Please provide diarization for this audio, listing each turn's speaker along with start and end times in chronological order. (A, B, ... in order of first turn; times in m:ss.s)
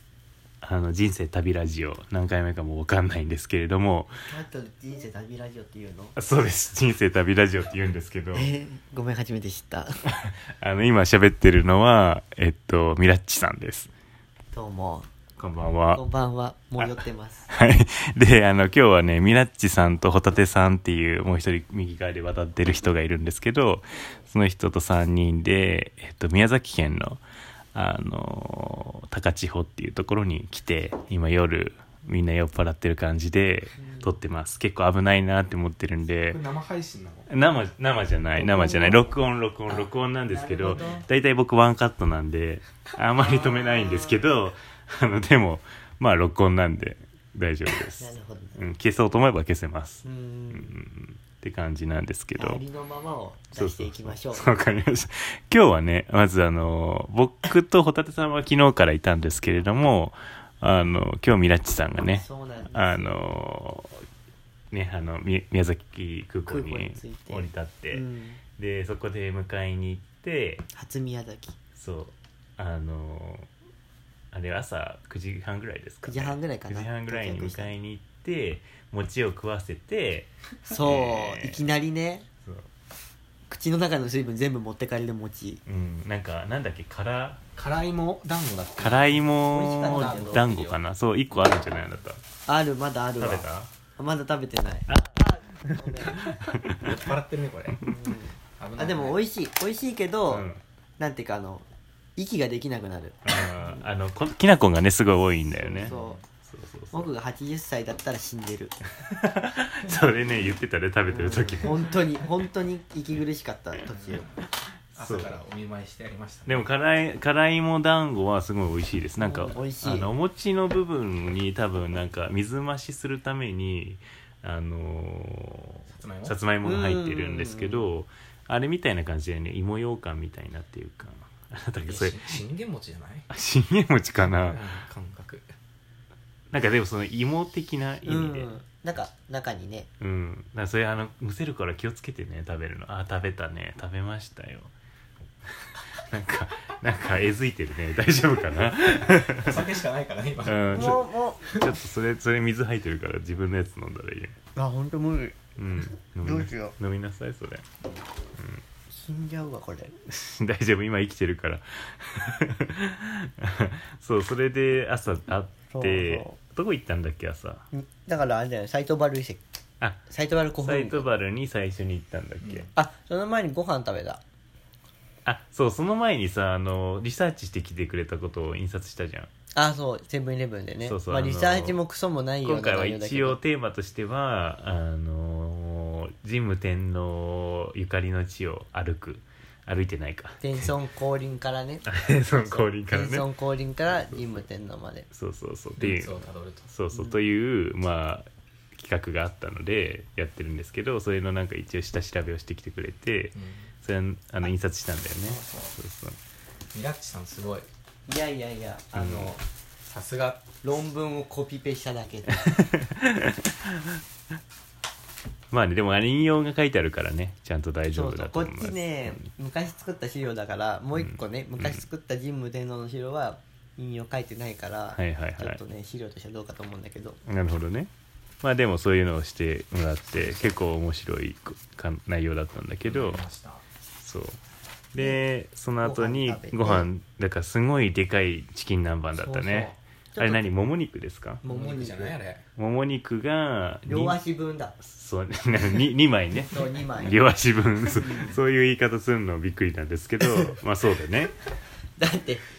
0:00.6-0:04.1 A
0:04.2-0:06.2 B
0:06.2-0:08.5 A
0:08.3-0:09.9 B
0:10.2-0:13.9 A
0:14.5-0:15.1 B
0:15.4-0:16.0 A
0:15.9-0:17.5 B
0:16.8-0:27.2 A
0:27.7-0:36.4 A
0:33.8-0:34.1 B
0:36.2-0:37.3 C
0:37.3-0:52.6 A
0:38.3-0:39.1 B
0:39.7-0:41.0 B
0:43.2-0:44.3 B
0:48.0-0:48.6 B
0:50.0-0:50.8 B
0:52.4-0:54.5 B
0:53.5-1:04.0 A
1:02.1-1:03.2 B
1:04.7-1:08.0 A
1:06.5-1:08.4 B
1:08.6-1:10.6 A
1:10.7-1:11.5 B
1:11.7-1:13.5 A
1:14.3-1:20.3 A
1:16.0-1:17.7 B
1:20.7-1:22.3 B
1:20.8-1:21.6 A
1:22.4-1:22.7 A
1:23.5-1:25.6 B
1:25.6-1:27.4 A
1:27.6-1:30.8 C
1:28.8-1:32.2 A
1:29.5-1:30.5 B
1:31.3-1:32.0 C
1:32.4-1:36.2 B
1:33.2-1:33.7 A
1:34.9-1:37.0 A
1:36.3-1:37.9 C
1:37.8-1:43.9 B
1:38.6-1:39.2 C
1:40.3-1:40.6 A
1:43.2-1:47.1 A
1:45.5-1:46.2 B
1:45.8-1:46.2 C
1:46.9-1:48.8 B
1:49.1-1:52.0 A
1:51.1-1:54.2 B
1:53.9-1:54.4 C
1:54.9-1:55.4 A
1:55.0-1:56.7 C
1:56.4-2:12.4 A
1:59.2-2:00.1 B
2:05.9-2:06.4 C
2:06.6-2:07.9 B
2:11.8-2:13.3 C
2:13.3-2:14.6 A
2:14.2-2:15.4 C
2:16.5-2:18.5 A
2:18.0-2:19.9 B
2:20.0-2:24.7 A
2:26.0-2:29.6 A
2:29.3-2:31.7 C
2:30.4-2:34.3 A
2:30.7-2:31.5 B
2:34.6-2:35.4 B
2:35.6-2:37.6 A
2:36.2-2:36.8 B
2:38.4-2:38.6 A
2:38.9-2:39.9 B
2:40.0-2:47.6 A
2:45.7-2:46.4 B
2:47.7-2:49.4 B
2:50.1-2:51.1 B
2:50.6-2:52.7 A
2:52.4-2:52.7 C
2:52.7-2:54.2 B
2:55.2-2:59.3 A
2:59.5-3:03.4 B
3:00.8-3:01.8 A
3:02.4-3:10.7 A
3:10.4-3:15.1 B
3:11.8-3:13.3 A
3:13.9-3:14.2 A
3:15.1-3:26.2 A
3:15.8-3:16.7 C
3:16.9-3:17.2 B
3:23.3-3:23.7 C
3:25.2-3:25.8 C
3:26.7-3:27.7 C
3:28.1-3:29.3 B
3:29.0-3:29.3 A
3:29.0-3:30.4 C
3:30.6-3:32.5 B
3:32.4-3:33.7 A
3:35.5-3:39.2 A
3:37.9-3:47.2 B
3:41.0-3:41.8 A
3:44.9-3:45.6 A
3:47.2-3:47.9 A
3:48.4-3:53.2 A
3:52.8-3:53.6 C
3:54.0-3:54.4 A
3:54.9-4:01.4 A
3:55.0-3:55.2 B
3:55.8-3:56.9 B
3:59.1-4:00.5 B
4:01.4-4:02.2 B
4:01.4-4:02.4 C
4:02.6-4:04.2 A
4:03.8-4:04.8 B
4:04.8-4:11.3 A
4:06.4-4:07.2 B
4:07.9-4:08.4 B
4:12.0-4:12.4 B